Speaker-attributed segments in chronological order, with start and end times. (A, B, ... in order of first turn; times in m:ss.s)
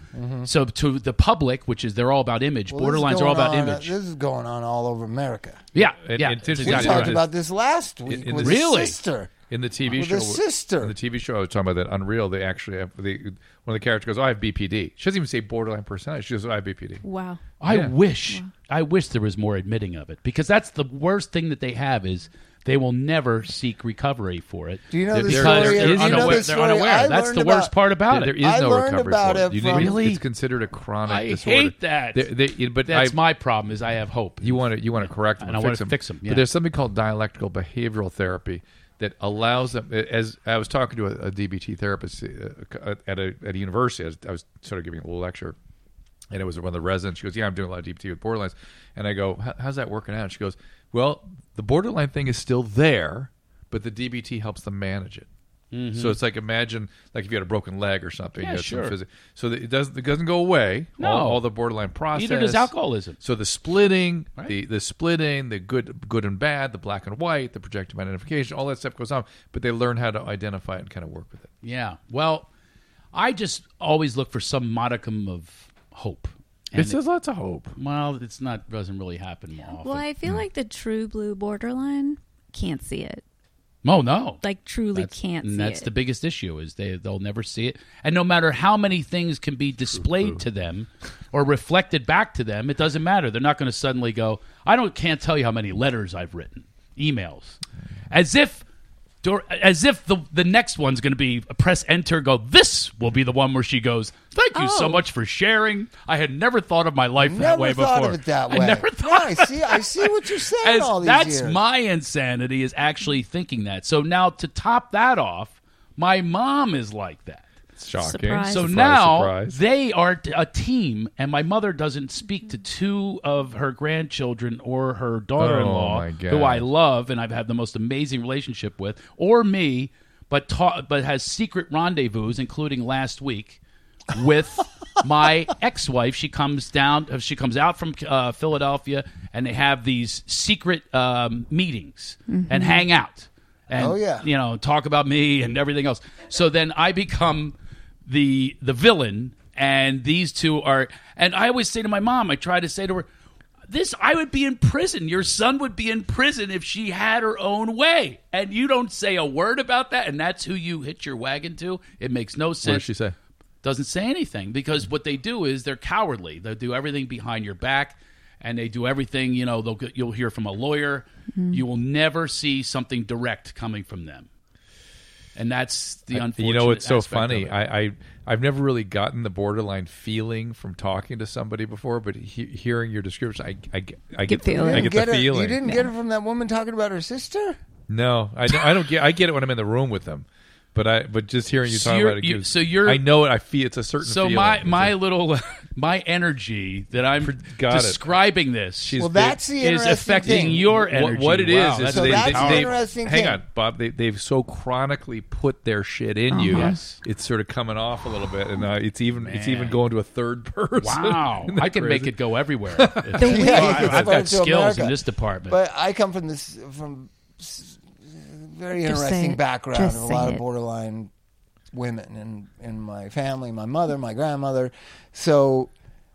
0:00.1-0:00.5 A
0:00.4-0:04.0 B
0:02.7-0:05.6 A
0:05.8-0:07.2 B
0:05.8-0:07.3 C
0:06.6-0:09.3 A
0:08.1-0:08.8 C
0:08.4-0:09.0 B
0:09.5-0:17.0 C
0:09.9-0:11.0 A
0:17.0-0:17.4 D
0:17.6-0:28.4 B
0:17.7-0:17.9 C
0:24.9-0:27.7 A
0:25.3-0:26.5 C
0:28.1-0:33.2 C
0:28.4-0:30.0 A
0:29.7-0:30.2 B
0:31.1-0:32.3 B
0:32.8-0:36.5 B
0:34.4-0:45.6 C
0:46.3-0:55.3 C
0:55.7-0:56.2 B
0:55.9-1:11.5 C
0:58.4-0:59.0 B
1:01.0-1:01.4 B
1:02.2-1:03.2 B
1:11.6-1:12.5 B
1:13.1-1:17.0 B
1:16.8-1:17.7 C
1:17.8-1:20.1 B
1:19.8-1:23.2 D
1:23.8-1:24.4 B
1:24.4-1:25.9 D
1:24.9-1:37.6 B
1:29.9-1:30.4 C
1:38.1-1:38.6 B
1:39.2-1:57.5 B
1:44.6-1:45.0 D
1:47.2-1:51.6 A
1:57.8-1:59.6 C
1:58.0-1:58.7 D
1:58.5-2:13.6 B
2:05.4-2:06.7 C
2:14.1-2:27.6 B
2:22.3-2:22.8 D
2:23.7-2:24.3 A
2:28.1-2:33.1 B
2:33.7-2:42.9 B
2:42.6-2:43.2 C
2:43.6-2:54.3 B
2:51.4-2:51.6 D
2:55.4-2:57.6 B
2:56.1-3:05.6 C
3:04.3-3:04.9 D
3:04.6-3:07.6 A
3:07.9-3:15.0 C
3:11.7-3:13.0 B
3:14.0-3:19.0 B
3:17.2-3:18.1 C
3:18.8-3:19.4 C
3:19.0-3:20.6 A
3:19.6-3:22.7 B
3:20.2-3:32.1 C
3:21.9-3:23.4 A
3:26.3-3:26.9 D
3:26.5-3:27.0 B
3:29.2-3:29.8 B
3:30.8-3:35.6 B
3:32.7-3:34.1 C
3:33.2-3:34.0 D
3:33.2-3:41.1 A
3:38.8-3:40.4 D
3:41.7-3:45.7 A